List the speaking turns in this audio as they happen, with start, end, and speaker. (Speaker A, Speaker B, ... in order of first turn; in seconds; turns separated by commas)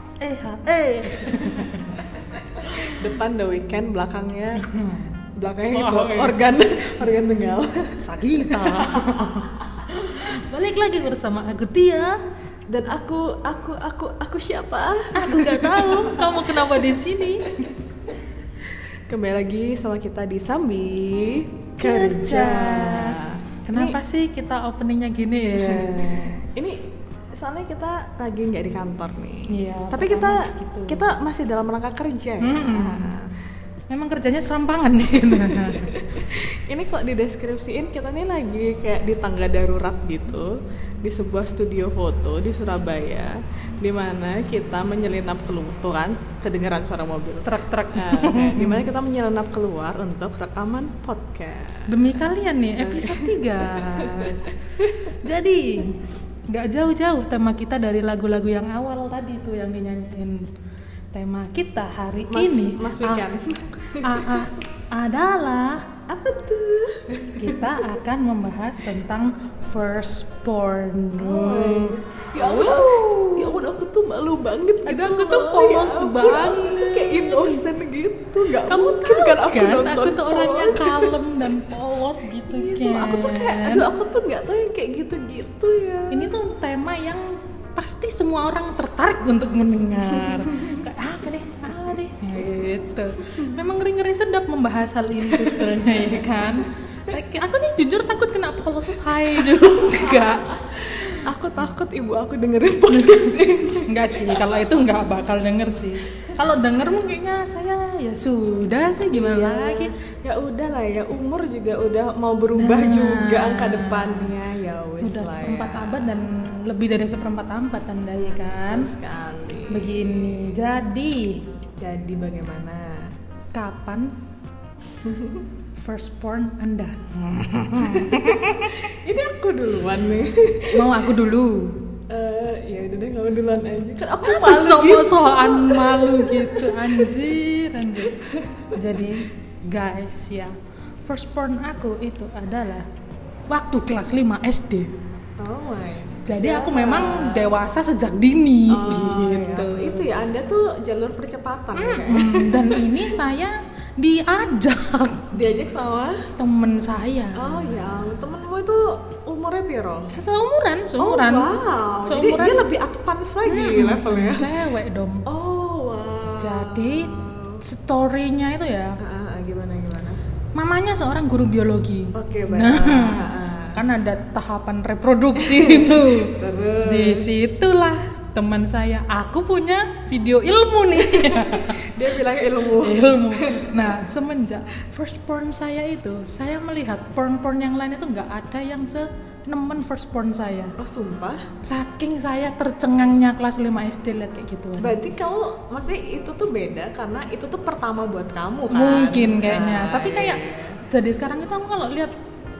Speaker A: 0.2-2.1, Speaker B: 0.2-4.7, Speaker A: 2.6-3.1, Speaker A: 4.6-5.1, Speaker B: 5.4-9.5, Speaker A: 5.7-6.4, Speaker A: 8.0-12.2, Speaker B: 10.1-10.4, Speaker B: 12.7-16.8, Speaker A: 15.2-17.7, Speaker B: 18.6-24.0, Speaker A: 21.8-23.2, Speaker A: 23.7-26.4, Speaker B: 25.5-33.3, Speaker A: 29.5-31.0, Speaker A: 32.4-33.1, Speaker A: 33.9-36.1, Speaker B: 35.2-55.2, Speaker A: 47.5-48.8, Speaker A: 51.9-54.6, Speaker A: 55.2-60.5, Speaker A: 61.1-63.3, Speaker B: 62.2-64.5, Speaker A: 64.0-65.8, Speaker B: 66.1-68.0, Speaker A: 67.4-73.6, Speaker B: 71.2-81.2, Speaker A: 74.9-77.7, Speaker A: 78.5-83.9, Speaker B: 82.5-86.3, Speaker A: 86.1-100.5, Speaker B: 90.0-90.8, Speaker B: 95.2-96.5, Speaker B: 99.3-104.6, Speaker A: 102.9-103.3, Speaker A: 103.9-109.9, Speaker B: 109.1-116.2, Speaker A: 112.5-114.3, Speaker A: 115.0-118.9, Speaker B: 118.7-120.5, Speaker A: 119.7-121.4, Speaker B: 121.8-123.1, Speaker A: 123.5-124.1, Speaker B: 124.9-125.5, Speaker A: 125.8-128.8, Speaker B: 127.8-131.0, Speaker A: 130.7-131.7, Speaker B: 132.1-137.3, Speaker A: 134.2-142.9, Speaker B: 138.0-138.8, Speaker A: 143.5-144.9, Speaker B: 145.4-147.6, Speaker A: 146.3-150.1, Speaker B: 148.7-153.1, Speaker A: 151.8-155.3, Speaker B: 155.3-156.3, Speaker A: 156.4-157.8, Speaker B: 157.4-160.1, Speaker A: 160.1-162.7, Speaker B: 161.0-164.5, Speaker A: 163.5-165.3, Speaker B: 165.3-167.6, Speaker A: 166.4-167.1, Speaker A: 167.6-169.0, Speaker B: 169.0-170.2, Speaker A: 170.6-190.8, Speaker B: 172.1-173.8, Speaker B: 175.3-177.3, Speaker B: 181.0-183.9, Speaker B: 190.8-191.5, Speaker A: 191.6-195.0, Speaker B: 194.8-200.8, Speaker A: 198.7-202.1